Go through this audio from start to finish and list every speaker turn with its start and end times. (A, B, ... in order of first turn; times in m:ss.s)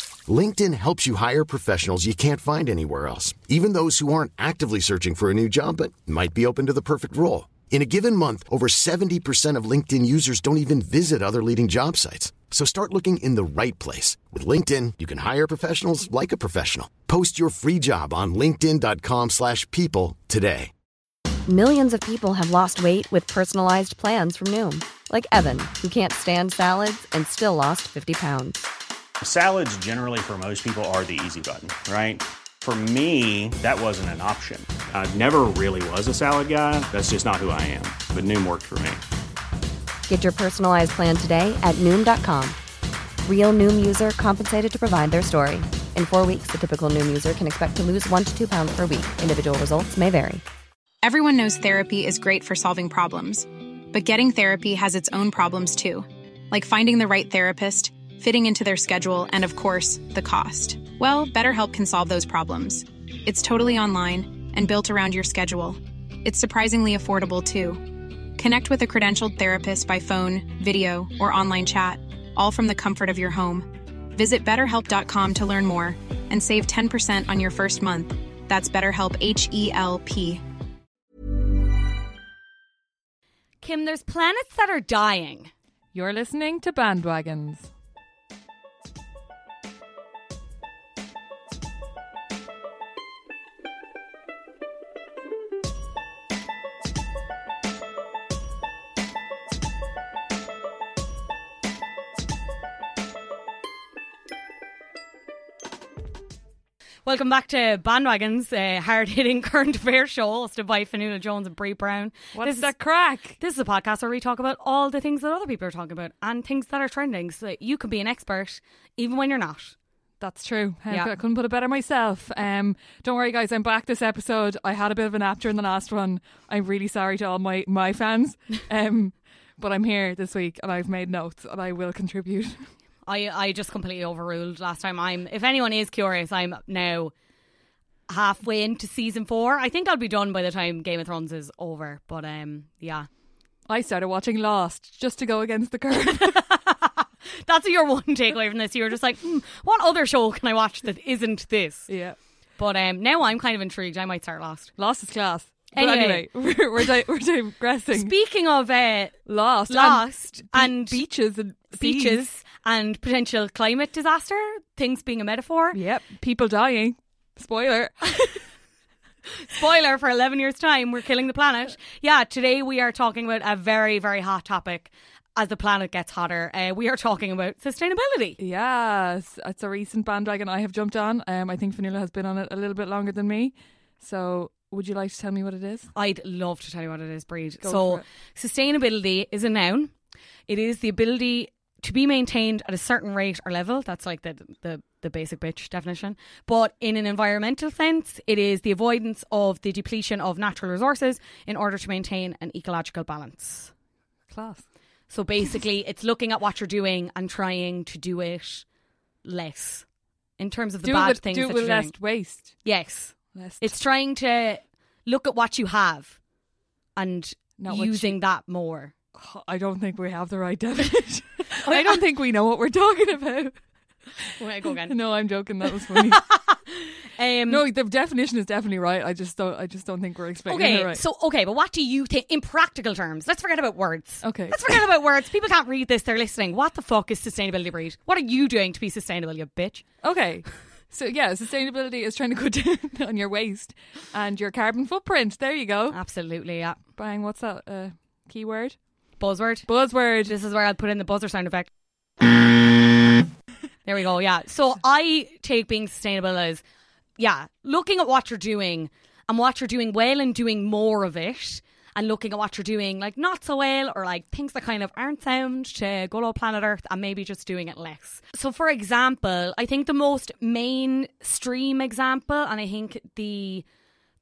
0:00.2-0:20.7 A
0:21.4-0:28.6 B
0:29.2-0:39.0 C
0:40.1-0:42.6 B
0:43.2-0:50.4 B
0:51.0-1:20.4 D
1:23.6-1:25.5 E
1:25.9-1:27.7 F
1:47.0-1:52.7 E
1:52.3-1:53.4 F
1:53.4-1:59.7 E
2:00.2-2:12.7 F
2:13.1-2:17.1 E
2:18.1-2:23.1 E
2:23.7-2:26.4 F
2:26.2-2:34.7 E
2:31.9-2:32.2 F
2:34.8-2:38.1 F
2:35.7-2:36.3 E
2:37.9-2:41.1 E
2:39.2-2:42.2 F
2:41.7-2:45.8 E
2:45.7-2:48.4 F
2:49.4-2:58.4 E
2:58.4-3:05.9 F
3:05.9-3:09.9 E
3:07.6-3:08.0 F
3:10.5-3:23.7 E
3:24.3-3:24.7 F
3:25.1-3:28.6 E
3:29.2-3:29.9 E
3:30.4-3:32.0 E
3:30.8-3:32.6 F
3:32.6-3:36.2 E
3:33.3-3:33.8 F
3:37.0-3:38.9 E
3:37.6-3:38.2 F
3:39.1-3:43.6 F
3:41.6-3:42.0 E
3:44.2-3:46.2 F
3:44.4-3:44.9 E
3:45.7-3:46.6 E
3:47.1-3:47.6 E
3:47.5-3:51.0 F
3:50.5-3:59.8 E
3:54.2-3:54.8 F
4:00.0-4:06.0 F
4:05.9-4:06.8 E
4:06.9-4:08.8 F
4:09.2-4:09.7 E
4:09.6-4:10.3 F
4:10.2-4:11.7 E
4:13.8-4:16.6 E
4:17.2-4:33.6 E